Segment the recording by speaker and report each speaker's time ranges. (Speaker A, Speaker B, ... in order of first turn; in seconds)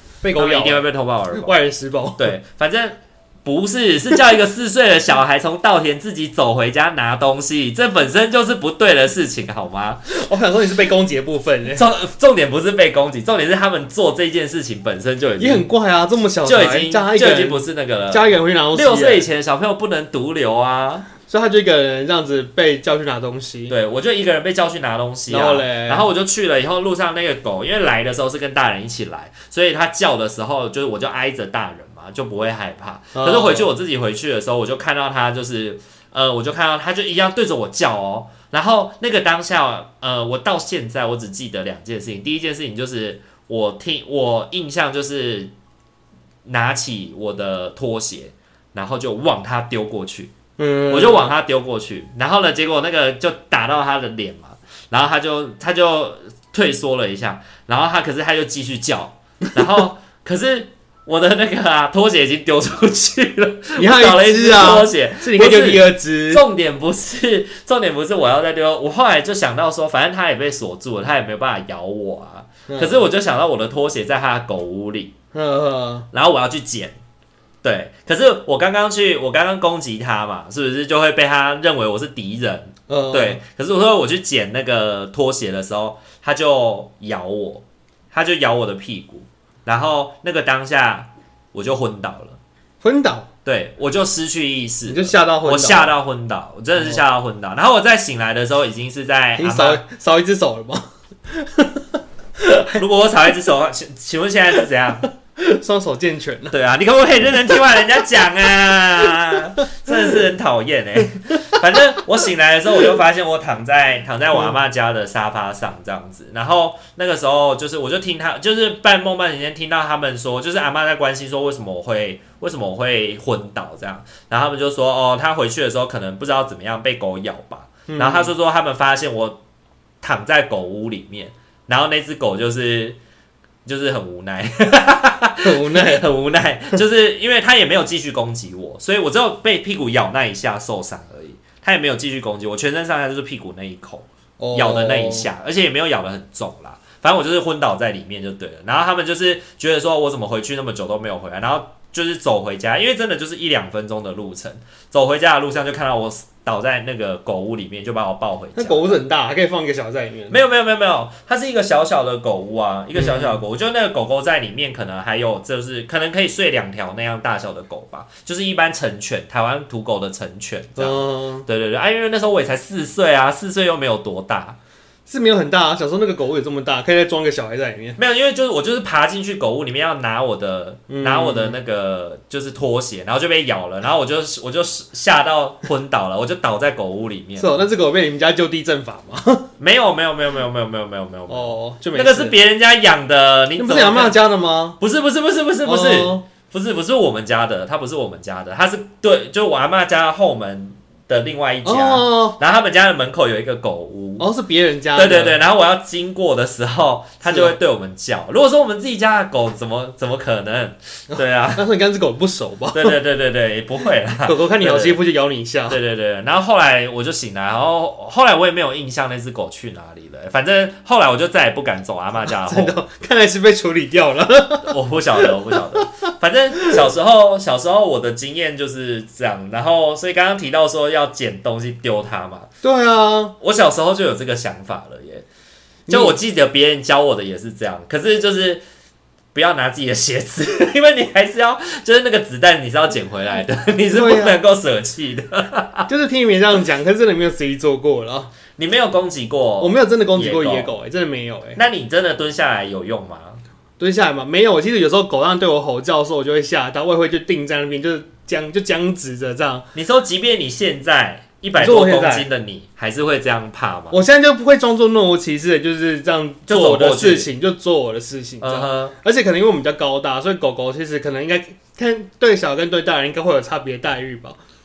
Speaker A: 0.2-2.3, 10.1-11.8, 15.4-19.2, 21.3-23.7, 25.3-26.1, 33.1-33.7, 50.6-51.3, 63.8-66.4, 72.7-73.0, 75.3-76.1, 82.9-83.4, 92.8-93.3, 94.9-95.9, 99.4-102.8, 105.4-106.5, 109.9-110.2, 127.9-128.3, 135.4-136.1, 144.4-145.3, 158.6-160.4, 162.9-163.4, 170.8-171.5, 175.1-178.0, 180.9-181.6, 187.4-189.5, 191.3-192.4, 193.6-194.8, 195.7-196.2, 201.7-202.4, 204.2-205.4, 207.2-207.6, 211.1-213.0, 214.2-215.8, 222.2-225.8, 232.6-233.3, 235.9-236.2, 243.9-244.4, 245.9-248.3, 249.6-251.6, 253.8-259.7, 261.6-262.3, 263.9-274.4
Speaker B: 0.3-1.6, 2.2-10.0, 11.7-15.7, 16.4-21.1, 23.7-45.5, 46.5-50.3, 50.9-75.1, 76.1-77.0, 77.6-92.4, 93.5-99.8, 102.7-105.1, 106.5-129.4, 130.0-133.0, 133.7-159.0, 160.3-174.6, 178.0-187.6, 189.6-194.2, 194.8-204.3, 204.9-211.7, 212.7-215.0, 215.7-222.8, 224.6-232.5, 233.4-235.2, 235.9-238.6, 239.3-245.9, 248.6-250.7, 251.6-253.4, 259.7-264.0, 266.5-267.3, 268.4-268.9